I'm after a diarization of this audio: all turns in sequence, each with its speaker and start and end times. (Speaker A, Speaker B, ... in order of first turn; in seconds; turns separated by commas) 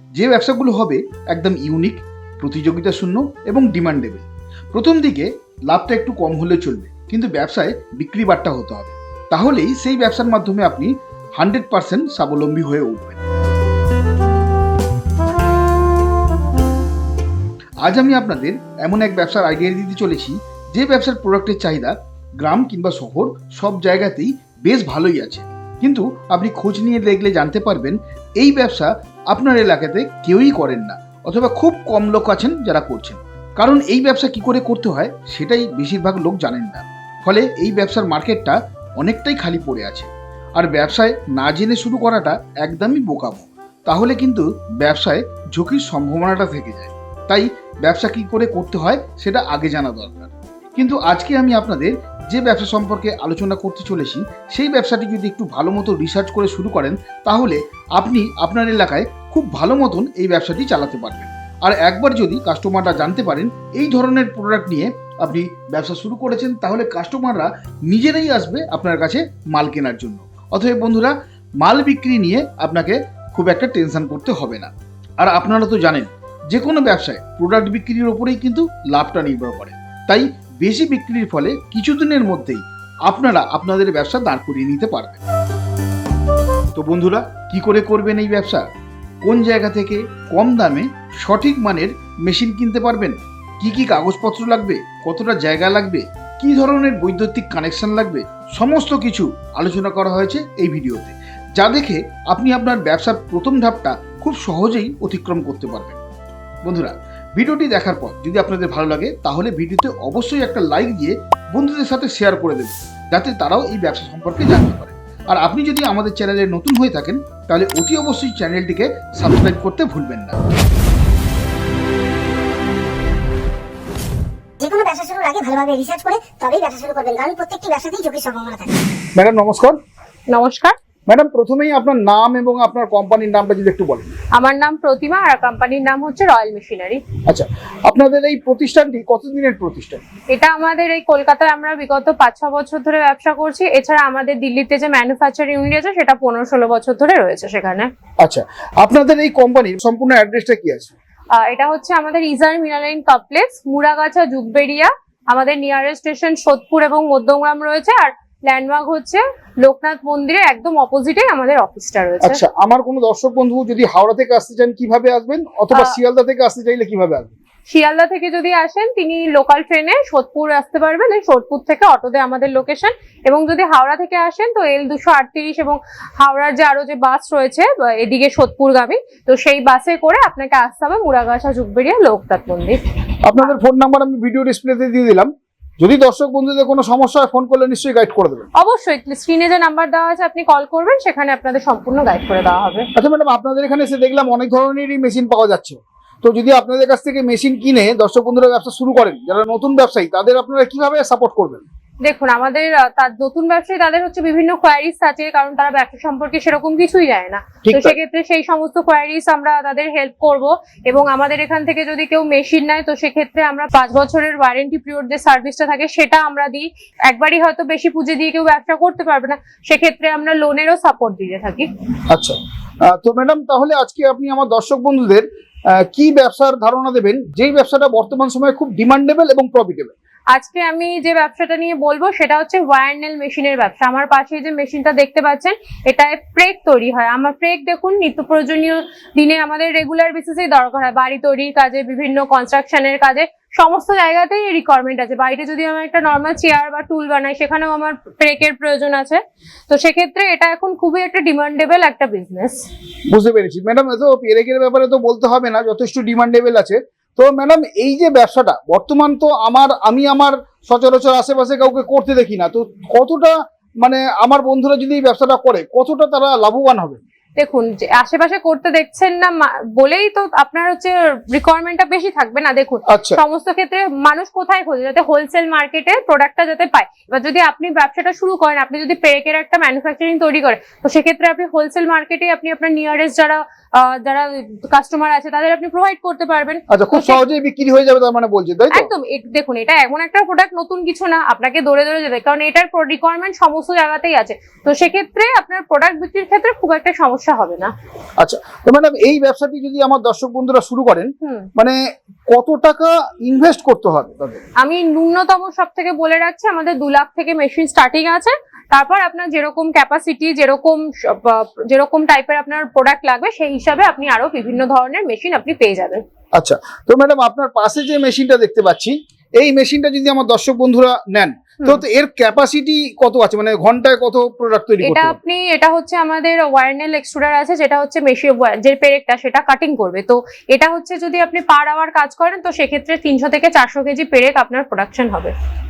Speaker A: 0.1-13.2, Speaker A: 17.8-85.2, Speaker A: 86.8-88.7, Speaker A: 89.2-106.0, Speaker A: 106.6-120.4, Speaker B: 124.6-128.8, Speaker A: 129.2-129.8, Speaker C: 130.3-130.8, Speaker A: 131.1-134.1, Speaker C: 134.3-137.0, Speaker A: 137.3-140.0, Speaker C: 140.3-147.9, Speaker A: 148.2-150.9, Speaker C: 151.4-162.4, Speaker A: 162.2-167.3, Speaker C: 167.7-182.8, Speaker A: 183.2-188.5, Speaker C: 188.6-192.9, Speaker A: 193.0-201.7, Speaker C: 202.0-221.7, Speaker A: 207.7-208.0, Speaker A: 222.1-225.2, Speaker A: 225.8-229.9, Speaker C: 230.3-252.7, Speaker A: 253.1-267.0, Speaker C: 267.4-287.2, Speaker A: 272.9-273.2, Speaker A: 286.7-288.9, Speaker C: 288.7-297.7, Speaker A: 298.2-301.8, Speaker C: 301.2-301.5, Speaker A: 302.3-304.4, Speaker C: 304.6-316.0, Speaker A: 316.4-325.2, Speaker C: 324.8-335.3